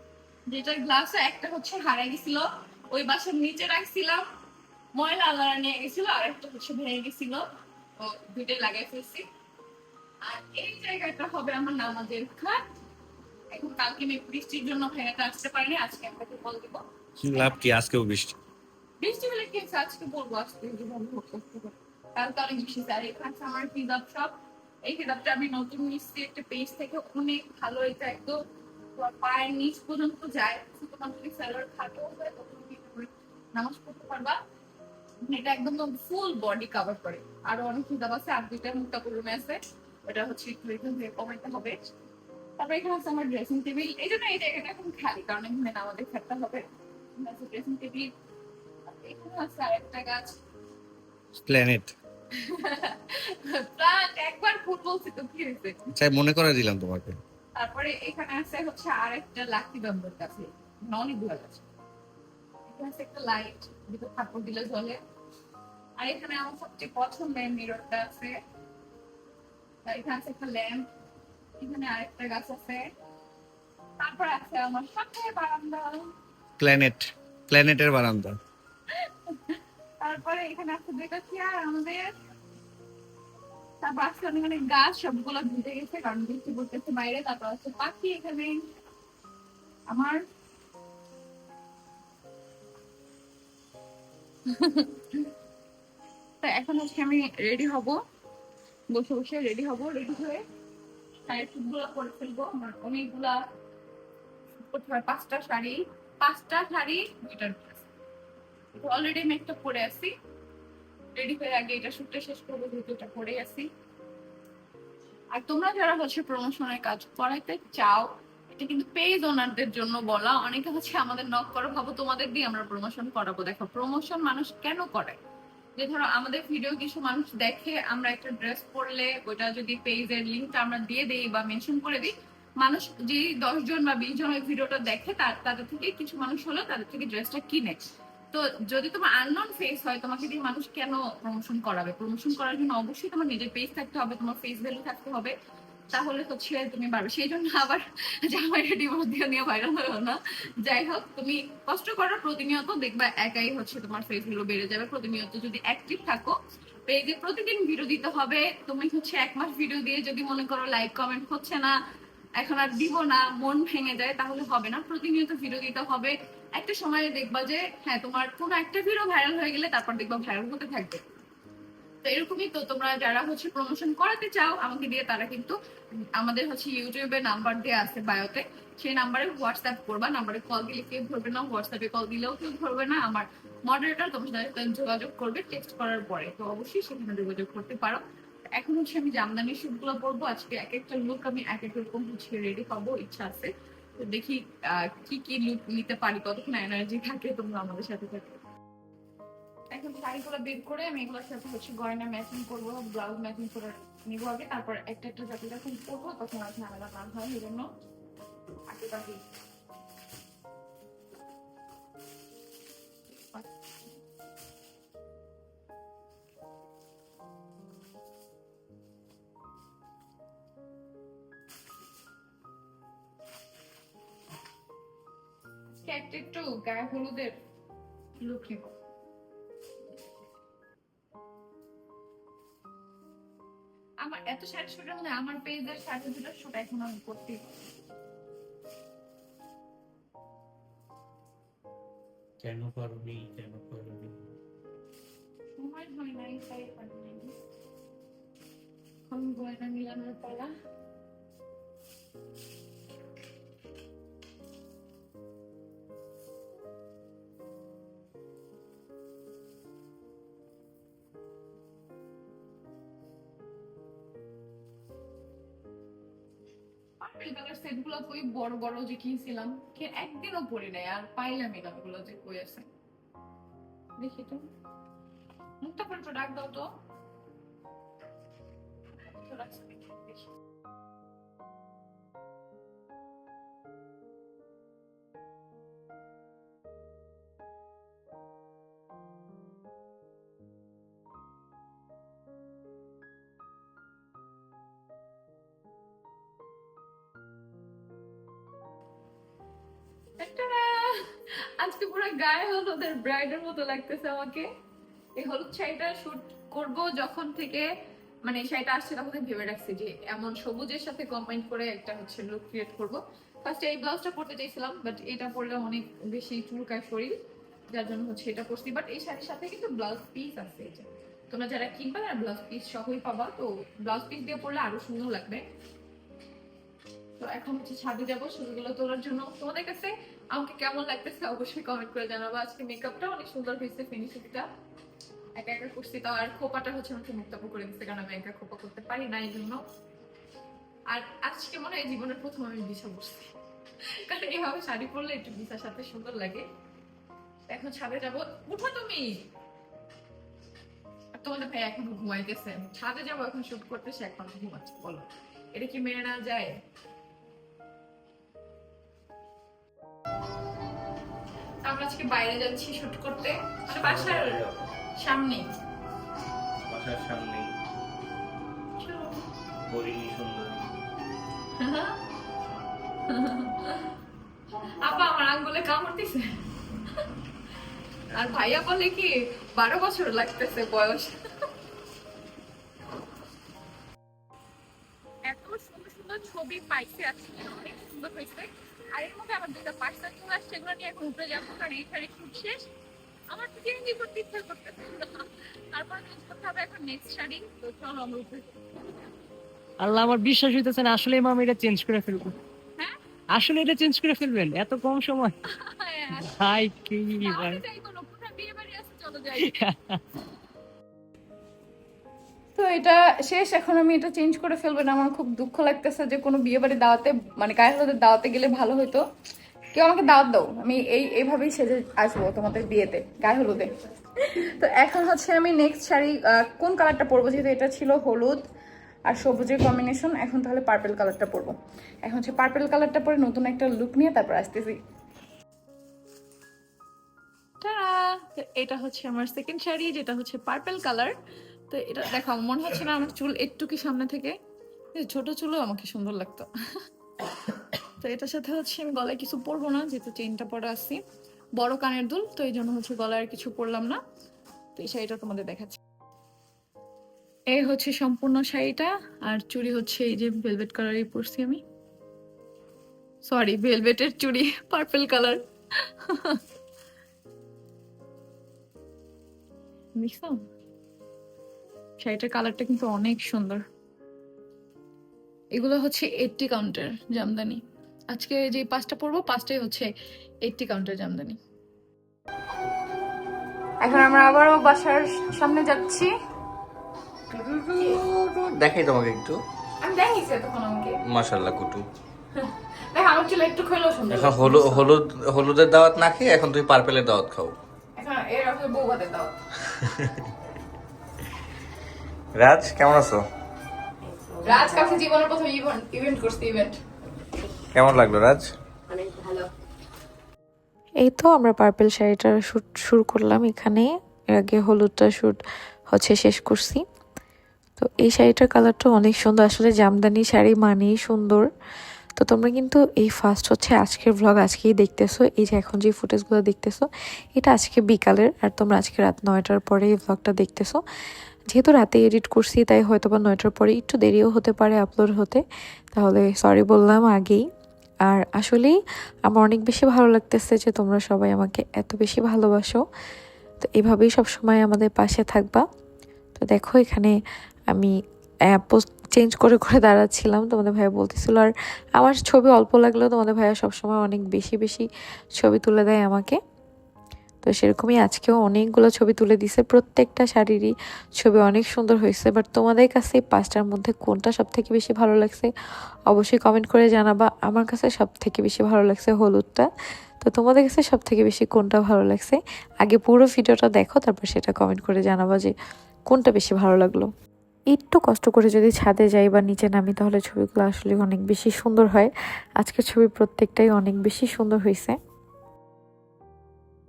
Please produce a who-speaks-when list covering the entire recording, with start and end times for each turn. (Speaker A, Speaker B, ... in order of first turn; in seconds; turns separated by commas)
Speaker A: 0.5-4.3, Speaker A: 5.0-9.3, Speaker A: 10.2-12.6, Speaker A: 13.5-16.9, Speaker B: 17.2-18.3, Speaker A: 19.0-28.4, Speaker A: 29.0-34.4, Speaker A: 35.2-41.8, Speaker A: 42.6-48.1, Speaker A: 49.0-50.4, Speaker B: 51.4-51.9, Speaker A: 52.4-55.9, Speaker B: 56.0-57.2, Speaker A: 57.6-61.6, Speaker A: 62.7-65.0, Speaker A: 66.0-68.4, Speaker A: 69.8-70.9, Speaker A: 71.6-72.9, Speaker A: 74.0-76.1, Speaker B: 76.6-78.4, Speaker A: 79.0-82.1, Speaker A: 83.8-88.6, Speaker A: 89.9-90.2, Speaker A: 94.5-95.3, Speaker A: 96.4-98.0, Speaker A: 98.9-100.4, Speaker A: 101.3-103.4, Speaker A: 104.6-107.8, Speaker A: 108.8-110.1, Speaker A: 111.2-113.7, Speaker A: 115.3-125.2, Speaker A: 125.8-137.8, Speaker A: 138.3-145.3, Speaker A: 145.9-156.4, Speaker A: 156.9-161.8, Speaker A: 162.4-171.0, Speaker A: 172.0-175.6, Speaker A: 176.2-188.0, Speaker A: 188.5-198.4, Speaker A: 199.7-207.7, Speaker A: 208.7-209.2, Speaker A: 213.1-213.5, Speaker A: 225.7-227.3, Speaker A: 228.2-228.7, Speaker A: 234.0-237.4, Speaker B: 242.4-244.2, Speaker A: 245.6-247.3, Speaker A: 249.1-250.5, Speaker A: 267.0-272.7, Speaker A: 274.0-274.5, Speaker A: 275.6-276.7, Speaker A: 279.1-280.3, Speaker A: 300.2-304.5, Speaker A: 305.2-307.7, Speaker A: 308.3-317.2, Speaker A: 317.7-325.5, Speaker A: 327.2-334.5, Speaker A: 335.4-339.6, Speaker A: 340.9-343.3, Speaker A: 343.9-346.5, Speaker A: 347.5-349.2, Speaker A: 351.2-356.6, Speaker A: 361.6-364.4, Speaker B: 363.8-364.7, Speaker A: 365.0-365.5, Speaker B: 366.7-367.5, Speaker A: 368.8-369.2, Speaker B: 369.7-370.7, Speaker A: 371.6-372.0, Speaker A: 373.1-373.9, Speaker A: 374.5-376.4, Speaker A: 378.1-381.2, Speaker A: 385.3-392.7, Speaker A: 393.3-398.5, Speaker C: 399.8-402.4, Speaker C: 403.3-405.4, Speaker A: 405.5-406.4, Speaker C: 406.1-407.6, Speaker A: 407.2-409.6, Speaker C: 409.5-410.0, Speaker A: 412.6-419.1, Speaker A: 419.7-428.5, Speaker A: 429.1-434.8, Speaker A: 437.6-441.1, Speaker A: 441.7-444.4, Speaker A: 444.9-446.5, Speaker A: 448.0-451.0, Speaker A: 451.6-454.0, Speaker A: 454.8-455.8, Speaker A: 457.5-461.6, Speaker A: 463.2-466.4, Speaker A: 470.0-470.4, Speaker A: 472.0-473.6, Speaker A: 475.6-479.9, Speaker A: 480.4-481.4, Speaker A: 483.8-486.1, Speaker A: 487.3-488.0, Speaker B: 487.8-489.4, Speaker A: 489.8-491.0, Speaker B: 491.1-491.8, Speaker A: 492.4-494.9, Speaker B: 494.1-497.6, Speaker A: 498.0-499.3, Speaker B: 499.8-500.1, Speaker B: 502.4-503.2, Speaker A: 504.4-506.8, Speaker B: 507.8-508.5, Speaker A: 509.0-509.4, Speaker D: 511.0-515.4, Speaker D: 515.9-516.9, Speaker D: 517.8-521.5, Speaker D: 522.2-530.8, Speaker D: 531.5-537.4, Speaker D: 538.0-542.8, Speaker D: 543.6-545.6, Speaker D: 546.4-547.1, Speaker D: 548.5-556.4, Speaker D: 557.4-565.5, Speaker D: 566.1-569.7, Speaker D: 570.2-575.5, Speaker D: 576.1-577.1, Speaker D: 577.7-585.0